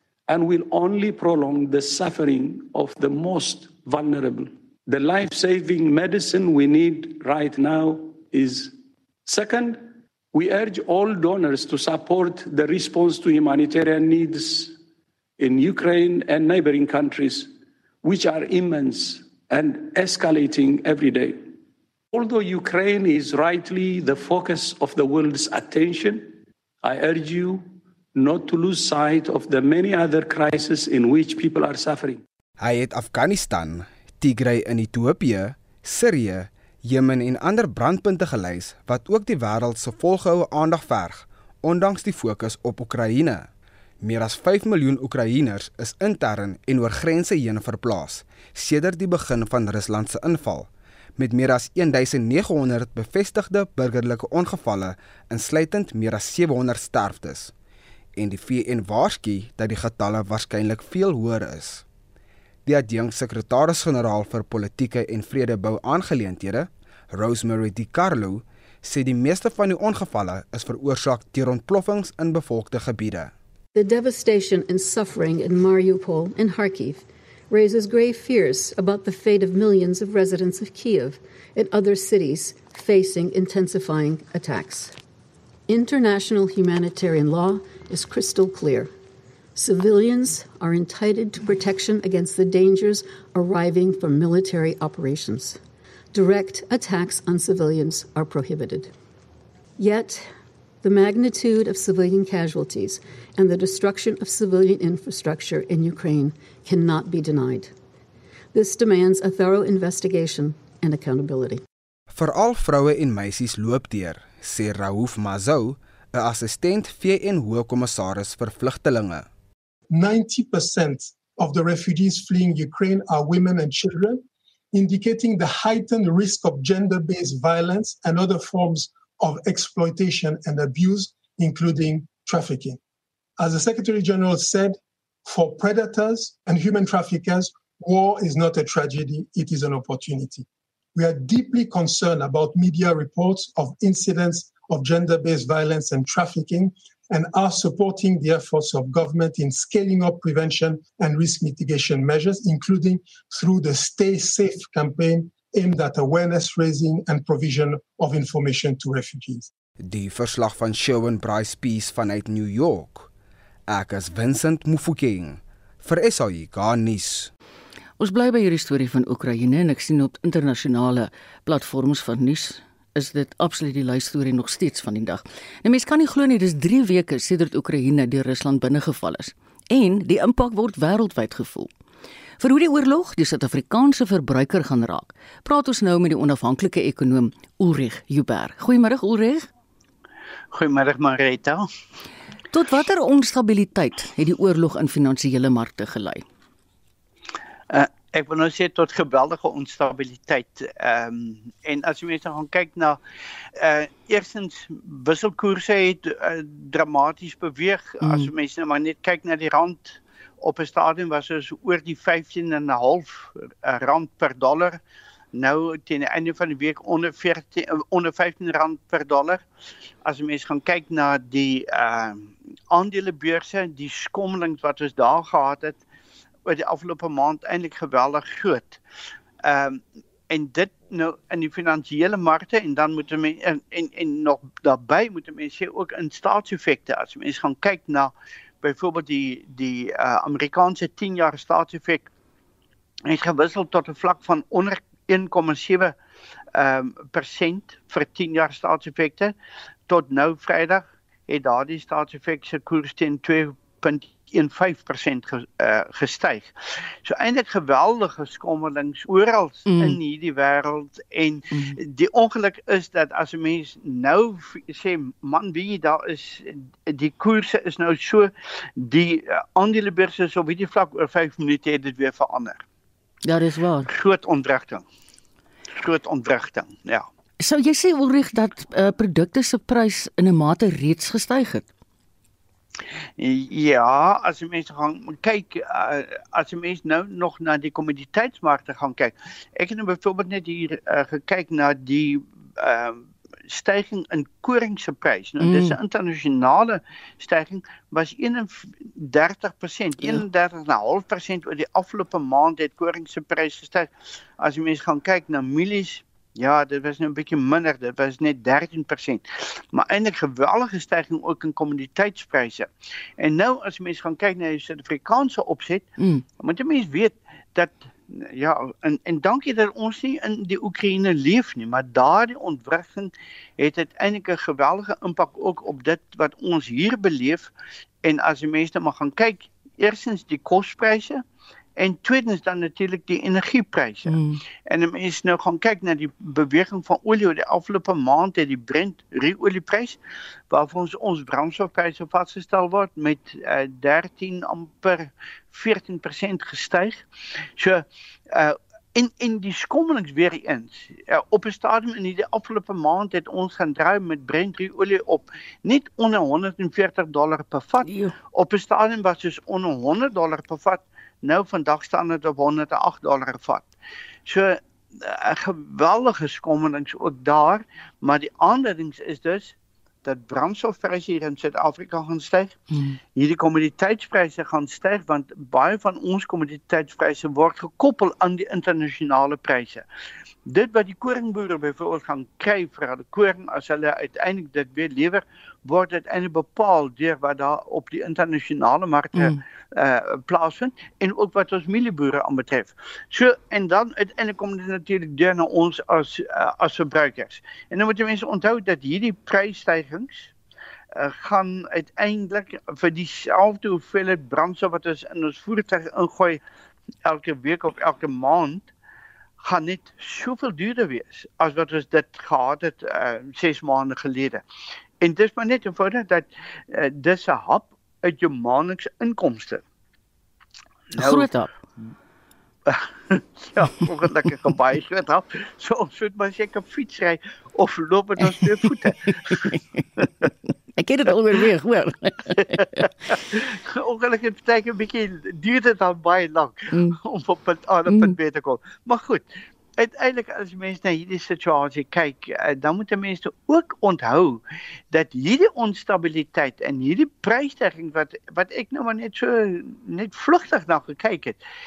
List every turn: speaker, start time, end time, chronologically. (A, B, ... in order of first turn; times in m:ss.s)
0:00.3-0:08.7 A
0:09.2-0:14.8 A
0:15.4-0:17.5 A
0:18.0-0:21.4 A
0:22.1-0:32.2 A
0:32.6-0:43.5 B
0:44.0-0:57.5 B
0:58.2-1:01.8 B
1:02.6-1:13.3 B
1:13.7-1:24.9 C
1:25.7-1:28.9 C
1:29.6-1:35.6 C
1:36.1-1:38.9 C
1:39.8-1:40.3 C
1:40.8-1:47.7 C
1:48.5-1:51.6 C
1:52.1-1:59.3 B
1:59.9-2:12.8 D
2:13.4-2:39.5 D
2:39.8-2:43.1 B
2:43.7-2:47.3 B
2:48.0-3:01.7 E
3:02.4-3:09.5 E
3:10.5-3:11.6 F
3:12.5-3:16.2 E
3:17.7-3:23.0 F
3:23.6-3:34.8 F
3:28.0-3:28.3 E
3:35.3-3:39.4 F
3:40.0-3:45.8 F
3:46.4-3:48.8 F
3:49.4-4:02.1 F
4:03.0-4:05.9 F
4:06.5-4:09.3 F
4:09.9-4:16.5 F
4:17.0-4:32.6 F
4:19.7-4:20.0 E
4:21.5-4:21.8 E
4:33.2-4:33.9 E
4:33.9-4:34.8 F
4:35.8-4:37.1 F
4:37.4-4:41.6 E
4:43.2-5:15.9 F
4:55.4-4:55.8 E
5:16.0-5:16.2 E
5:16.4-5:27.5 F
5:28.0-5:31.2 F
5:31.8-5:34.2 F
5:34.1-5:34.4 E
5:34.7-5:40.0 F
5:40.5-5:47.0 F
5:47.6-6:03.7 F
5:57.8-5:58.1 E
6:04.2-6:12.6 F
6:12.7-6:13.0 E
6:13.1-6:19.8 F
6:20.5-6:40.3 F
6:41.0-6:46.4 F
6:47.0-6:48.7 F
6:49.4-6:54.4 F
6:55.0-6:59.6 F
7:00.9-7:01.5 E
7:00.9-7:01.3 F
7:02.7-7:09.4 F
7:09.0-7:12.9 E
7:13.3-7:19.2 F
7:16.7-7:17.0 E
7:17.9-7:18.2 E
7:19.8-7:31.4 F